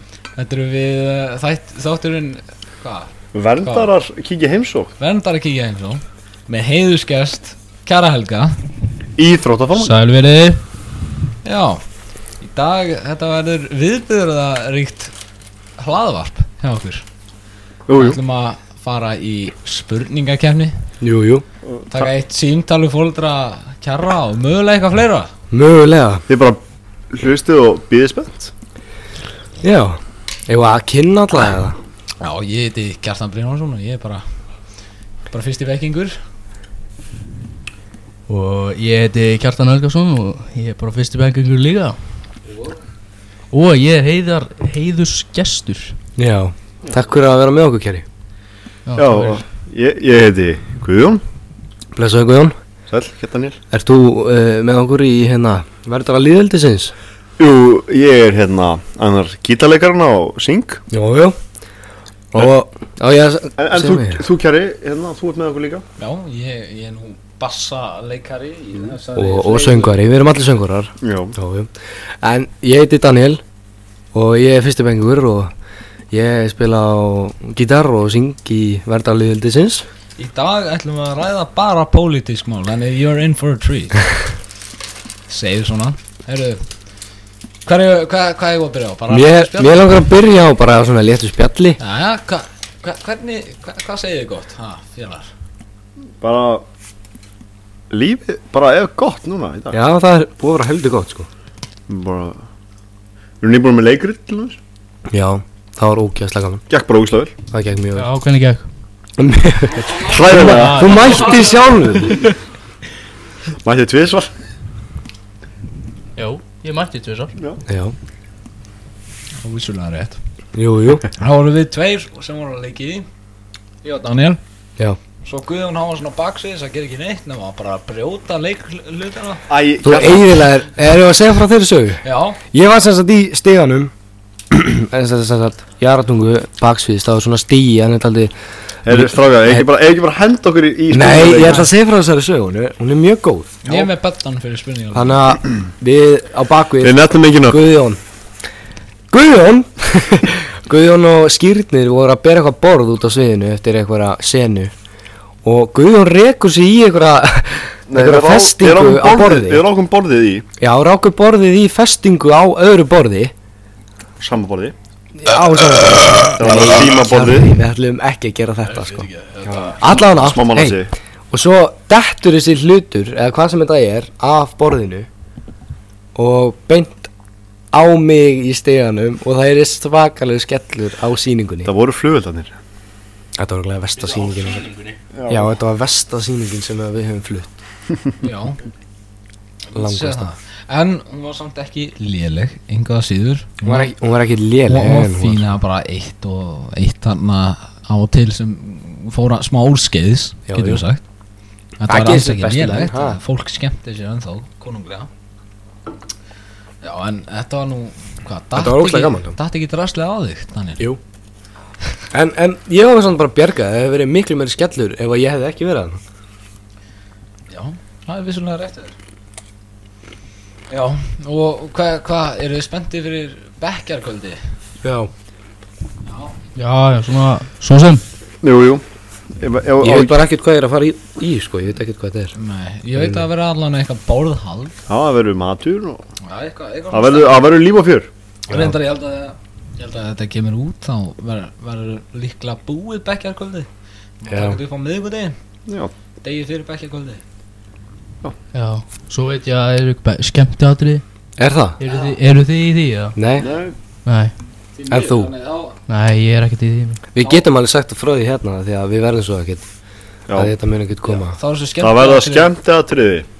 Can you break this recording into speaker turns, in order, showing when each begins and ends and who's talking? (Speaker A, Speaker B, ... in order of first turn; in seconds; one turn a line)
Speaker A: 0.3-3.9
Speaker B: 3.3-4.9
Speaker A: 5.0-8.5
Speaker B: 9.2-9.9
Speaker C: 9.8-10.6
Speaker A: 11.4-11.8
Speaker A: 12.4-15.1
Speaker A: 15.8-17.0
Speaker B: 17.9-18.2
Speaker A: 17.9-20.7
Speaker D: 21.0-21.4
Speaker B: 21.6-22.1
Speaker A: 21.9-25.3
Speaker D: 25.5-26.2
Speaker B: 26.3-28.5
Speaker D: 29.6-31.8
Speaker A: 32.2-34.2
Speaker A: 35.3-36.2
Speaker C: 38.3-42.0
Speaker A: 42.5-42.8
Speaker C: 43.5-46.0
Speaker D: 46.2-48.0
Speaker C: 48.9-49.4
Speaker B: 48.9-51.2
Speaker D: 52.0-52.5
Speaker B: 52.9-53.6
Speaker D: 53.7-56.9
Speaker B: 57.4-60.8
Speaker D: 60.9-61.4
Speaker D: 62.3-64.2
Speaker B: 63.6-65.8
Speaker A: 66.0-70.0
Speaker D: 69.2-73.4
Speaker B: 71.0-71.3
Speaker D: 74.1-75.5
Speaker D: 76.1-79.8
Speaker A: 80.2-84.0
Speaker A: 85.3-86.6
Speaker A: 87.7-90.0
Speaker D: 89.1-91.8
Speaker A: 91.8-95.3
Speaker B: 96.2-96.6
Speaker B: 97.9-99.8
Speaker D: 99.7-101.3
Speaker B: 101.9-102.4
Speaker B: 103.4-104.6
Speaker D: 105.1-106.6
Speaker B: 106.7-107.3
Speaker D: 107.5-108.1
Speaker C: 107.9-108.7
Speaker D: 109.2-112.3
Speaker B: 110.0-111.0
Speaker C: 110.2-112.2
Speaker B: 113.6-114.3
Speaker C: 116.2-117.3
Speaker B: 117.3-117.6
Speaker D: 117.7-117.9
Speaker A: 119.4-120.2
Speaker D: 120.5-121.0
Speaker A: 121.2-123.0
Speaker A: 123.8-124.4
Speaker A: 125.2-129.4
Speaker B: 129.5-130.5
Speaker D: 129.8-133.9
Speaker A: 132.0-132.4
Speaker D: 134.5-138.3
Speaker B: 138.8-141.7
Speaker D: 138.9-139.7
Speaker D: 140.9-143.5
Speaker A: 143.6-145.2
Speaker D: 144.9-148.0
Speaker B: 146.8-147.7
Speaker D: 149.1-154.7
Speaker D: 155.4-159.6
Speaker B: 157.9-160.4
Speaker D: 160.6-163.3
Speaker B: 164.2-164.7
Speaker D: 165.1-175.1
Speaker B: 166.3-167.5
Speaker C: 168.7-169.7
Speaker B: 169.6-170.9
Speaker D: 176.1-177.1
Speaker D: 177.7-181.7
Speaker B: 181.6-182.6
Speaker D: 183.4-184.7
Speaker C: 183.9-185.0
Speaker B: 185.1-185.6
Speaker D: 185.3-187.5
Speaker A: 188.2-188.6
Speaker A: 189.7-193.9
Speaker D: 189.7-190.3
Speaker D: 193.6-195.5
Speaker A: 194.7-201.0
Speaker D: 200.5-200.8
Speaker A: 201.8-205.1
Speaker D: 201.8-203.2
Speaker A: 206.8-210.8
Speaker D: 208.6-209.4
Speaker D: 212.1-216.0
Speaker A: 217.5-218.9
Speaker A: 220.7-224.4
Speaker D: 224.8-225.1
Speaker A: 226.1-226.3
Speaker C: 226.6-228.0
Speaker B: 228.4-228.8
Speaker B: 229.4-230.2
Speaker D: 229.8-232.3
Speaker A: 232.3-234.7
Speaker B: 234.9-236.0
Speaker A: 236.2-237.5
Speaker B: 236.9-238.1
Speaker A: 238.5-243.7
Speaker A: 244.2-245.3
Speaker D: 244.3-244.6
Speaker B: 245.7-245.9
Speaker A: 246.2-247.2
Speaker C: 248.5-251.0
Speaker D: 251.4-251.8
Speaker C: 251.8-253.2
Speaker D: 253.2-253.5
Speaker B: 253.4-253.8
Speaker C: 254.1-254.3
Speaker A: 254.8-255.8
Speaker D: 254.9-255.3
Speaker C: 255.9-257.0
Speaker D: 257.1-259.6
Speaker A: 257.2-257.4
Speaker B: 260.3-260.5
Speaker D: 260.3-261.4
Speaker A: 261.3-262.5
Speaker B: 261.8-263.3